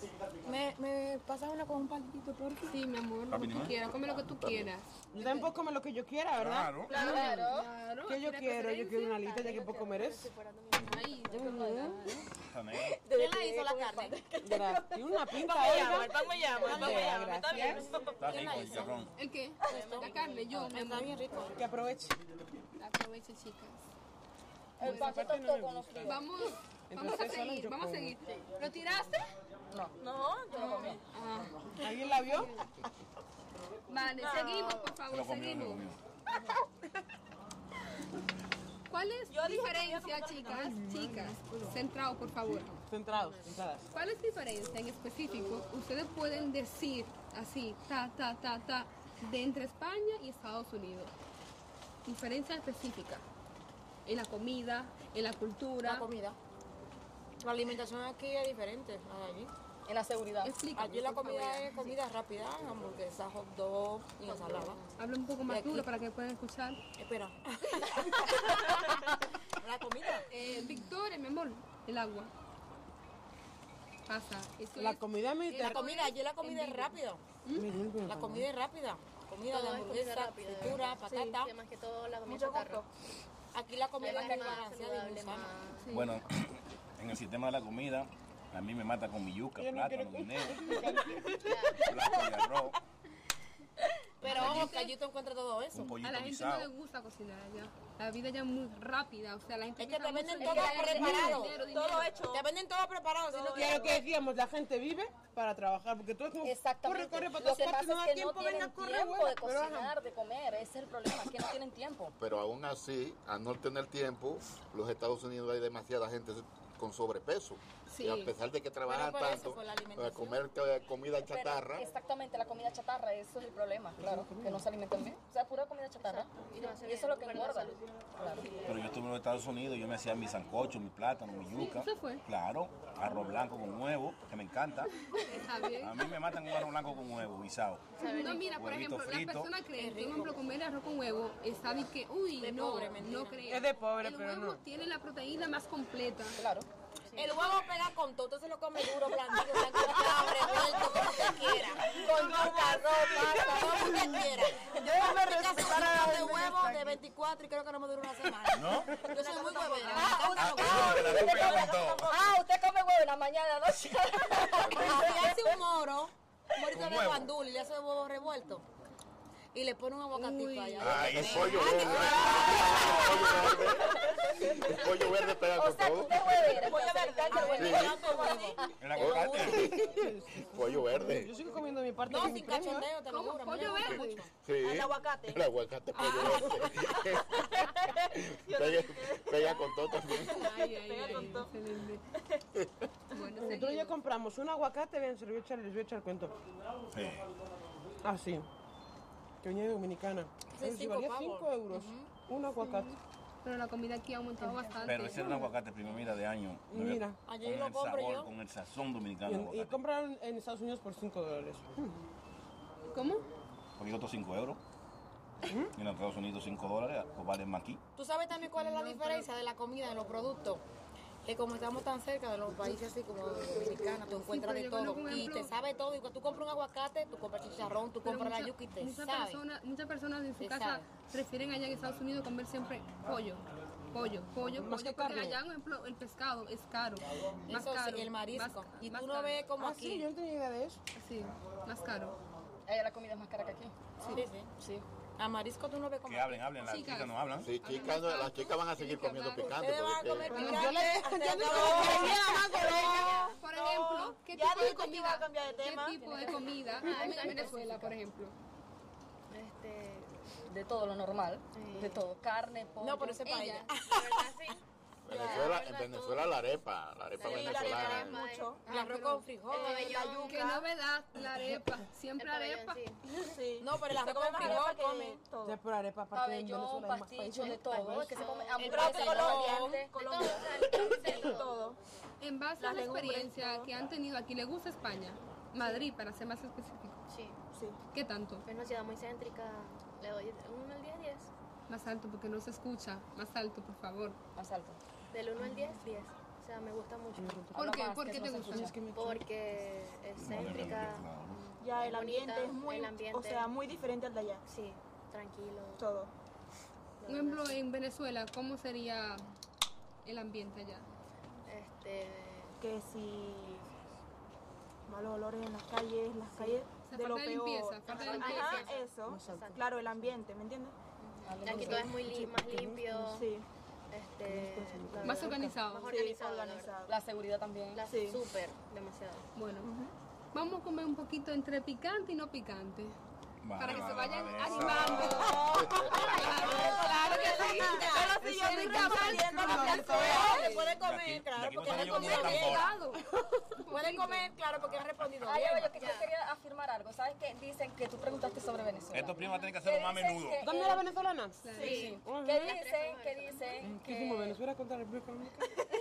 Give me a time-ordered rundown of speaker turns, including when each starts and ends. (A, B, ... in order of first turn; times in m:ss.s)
0:00.4-0:02.8 A
0:02.6-0:04.9 B
0:03.3-0:03.8 C
0:05.1-0:07.3 D
0:06.3-0:07.2 C
0:06.9-0:07.4 E
0:06.9-0:07.7 F
0:06.9-0:09.2 B
0:08.1-0:10.3 D
0:09.1-0:11.6 G
0:10.8-0:12.2 B
0:11.3-0:12.1 F
0:11.3-0:12.2 D
0:12.5-0:13.0 C
0:12.7-0:17.0 F
0:13.0-0:14.2 E
0:14.4-0:17.9 D
0:15.4-0:18.8 E
0:16.8-0:17.2 A
0:18.0-0:19.0 A
0:18.2-0:19.1 C
0:18.2-0:18.9 G
0:19.2-0:21.1 B
0:19.6-0:21.6 A
0:19.6-0:20.8 G
0:21.6-0:22.2 D
0:22.8-0:23.9 B
0:24.8-0:26.2 F
0:24.8-0:26.2 D
0:26.0-0:29.2 B
0:26.9-0:28.2 D
0:29.7-0:30.0 F
0:30.0-0:31.0 E
0:30.5-0:31.0 F
0:31.1-0:31.6 B
0:31.8-0:32.6 D
0:31.8-0:32.1 E
0:33.9-0:35.9 B
0:34.1-0:35.0 E
0:35.1-0:36.0 C
0:38.9-0:42.8 B
0:39.3-0:40.8 E
0:40.5-0:41.8 D
0:42.8-0:43.9 D
0:43.1-0:43.6 G
0:43.9-0:51.1 B
0:52.0-0:53.2 B
0:54.1-0:56.1 B
0:55.8-0:56.4 A
0:57.4-0:59.5 A
0:59.9-1:00.6 F
1:00.4-1:02.0 B
1:00.7-1:04.9 A
1:04.3-1:04.7 G
1:05.0-1:06.8 B
1:05.4-1:05.9 A
1:07.0-1:08.9 A
1:08.2-1:09.0 F
1:09.6-1:10.3 A
1:10.3-1:12.3 B
1:14.1-1:17.7 B
1:14.8-1:15.8 D
1:15.6-1:17.2 A
1:17.6-1:18.5 D
1:18.0-1:21.5 A
1:19.5-1:22.8 G
1:21.1-1:21.4 E
1:22.3-1:22.9 E
1:23.5-1:25.5 A
1:24.0-1:25.9 G
1:24.0-1:24.6 F
1:25.8-1:26.2 B
1:25.9-1:32.8 C
1:29.6-1:31.8 D
1:31.3-1:32.1 G
1:34.2-1:34.8 C
1:34.2-1:36.0 A
1:34.2-1:34.9 B
1:35.7-1:36.7 C
1:36.0-1:42.2 B
1:39.8-1:44.0 A
1:40.8-1:41.4 D
1:41.2-1:42.5 E
1:43.3-1:44.0 E
1:43.5-1:49.9 D
1:46.4-1:52.2 F
1:52.2-2:01.9 H
1:57.9-1:58.3 B
1:58.9-2:00.4 A
2:01.2-2:08.6 F
2:04.0-2:04.7 D
2:06.0-2:07.8 G
2:08.7-2:14.9 C
2:11.5-2:12.2 B
2:15.2-2:16.1 B
2:15.8-2:19.5 C
2:18.0-2:18.7 G
2:18.0-2:26.4 B
2:19.8-2:20.4 A
2:22.3-2:23.6 A
2:23.5-2:24.6 D
2:26.4-2:26.7 F
2:27.1-2:27.5 G
2:27.2-2:41.8 A
2:29.8-2:30.8 F
2:31.8-2:33.7 E
2:31.9-2:34.0 F
2:34.1-2:37.0 D
2:38.5-2:39.1 C
2:39.2-2:40.0 E
2:39.8-2:40.4 B
2:39.8-2:45.7 F
2:40.4-2:42.2 C
2:44.5-2:45.1 H
2:44.6-2:48.7 A
2:46.7-2:47.3 C
2:49.5-2:53.5 A
2:50.1-2:51.7 B
2:50.8-2:52.2 C
2:50.8-2:56.6 H
2:51.7-2:54.8 F
2:55.5-2:58.0 F
2:56.4-2:58.7 E
2:57.2-2:59.8 A
2:57.6-2:58.0 H
2:58.8-2:59.8 C
2:59.0-3:01.3 H
2:59.5-3:02.9 D
3:02.0-3:04.4 A
3:03.1-3:04.2 B
3:04.4-3:10.5 H
3:04.6-3:11.5 E
3:06.3-3:06.6 A
3:10.3-3:12.1 B
3:13.1-3:14.0 B
3:13.4-3:16.4 D
3:16.9-3:17.3 C
3:18.0-3:18.5 D
3:19.4-3:22.9 D
3:20.5-3:22.1 A
3:22.6-3:25.5 B
3:24.4-3:25.4 F
3:24.8-3:29.8 C
3:26.7-3:27.2 D
3:27.2-3:28.3 A
3:29.2-3:32.0 D
3:32.9-3:33.2 B
3:33.8-3:34.6 C
3:35.5-3:35.8 D
3:35.7-3:37.8 C
3:38.0-3:40.6 A
3:38.6-3:39.3 B
3:41.2-3:49.4 A
3:44.1-3:45.5 B
3:48.0-3:59.4 B
3:50.4-3:50.9 A
3:54.4-3:55.4 D
3:57.5-4:00.1 A
3:59.6-4:00.8 D
4:01.0-4:02.2 B
4:02.7-4:03.7 F
4:04.0-4:04.5 A
4:04.6-4:04.8 F
4:05.2-4:06.5 A
4:06.0-4:07.5 C
4:06.6-4:09.5 B
4:07.4-4:10.5 H
4:09.4-4:13.1 A
4:10.3-4:13.2 D
4:10.3-4:16.6 E
4:10.4-4:10.7 B
4:11.5-4:13.4 G
4:13.2-4:18.4 B
4:16.2-4:17.8 G
4:16.9-4:17.9 F
4:19.3-4:20.1 G
4:20.5-4:23.2 F
4:21.5-4:22.0 G
4:22.8-4:24.4 A
4:23.2-4:23.7 B
4:23.8-4:26.5 G
4:25.1-4:28.2 H
4:25.2-4:25.5 E
4:27.2-4:28.6 G
4:27.2-4:28.6 E
4:28.7-4:29.3 B
4:28.7-4:30.1 A
4:29.5-4:30.7 E
4:29.5-4:30.5 G
4:30.2-4:32.8 B
4:32.2-4:33.0 G
4:33.1-4:35.6 E
4:33.6-4:35.2 A
4:35.4-4:38.2 D
4:36.1-4:40.7 F
4:37.7-4:39.2 G
4:38.6-4:41.8 E
4:38.7-4:39.8 A
4:39.9-4:41.5 G
4:42.2-4:47.0 B
4:42.6-4:43.7 E
4:47.1-4:47.4 G
4:47.5-4:47.8 E
4:47.9-4:48.5 B
4:48.4-4:51.3 G
4:51.7-4:54.2 B
4:54.4-4:54.8 F
4:55.1-4:57.5 G
4:57.2-4:59.3 D
4:57.5-4:58.8 B
4:57.6-4:58.8 F
4:58.8-5:03.5 G
5:00.2-5:01.4 C
5:01.6-5:04.4 E
5:04.5-5:05.9 G
5:05.8-5:06.1 E
5:07.0-5:07.6 G
5:07.1-5:09.3 B
5:10.0-5:10.9 B
5:11.5-5:12.6 G
5:12.6-5:13.7 E
5:14.9-5:20.8 E
5:16.3-5:16.6 G
5:16.9-5:18.7 B
5:17.8-5:20.1 G
5:19.1-5:19.6 D
5:21.0-5:23.3 G
5:21.3-5:22.3 F
5:21.5-5:23.2 D
5:23.0-5:23.5 E
5:23.9-5:26.8 G
5:24.3-5:25.5 D
5:25.0-5:26.0 B
5:25.6-5:26.9 E
5:26.9-5:27.9 F
5:27.7-5:29.3 G
5:27.9-5:28.3 E
5:29.4-5:29.7 B
5:29.6-5:29.9 E
5:30.3-5:33.0 B
5:33.4-5:36.8 C
5:33.6-5:40.8 B
5:34.8-5:42.7 A
5:35.2-5:40.5 E
5:38.2-5:40.4 D
5:40.8-5:42.7 C
5:41.6-5:44.4 B
5:43.7-5:45.7 A
5:45.2-5:50.9 F
5:45.7-5:46.1 G
5:48.9-5:50.4 C
5:50.4-5:51.5 D
5:51.4-5:51.8 B
5:51.6-5:53.7 G
5:51.6-5:51.9 E
5:51.6-5:54.4 F
5:52.0-5:52.6 D
5:53.6-5:55.6 D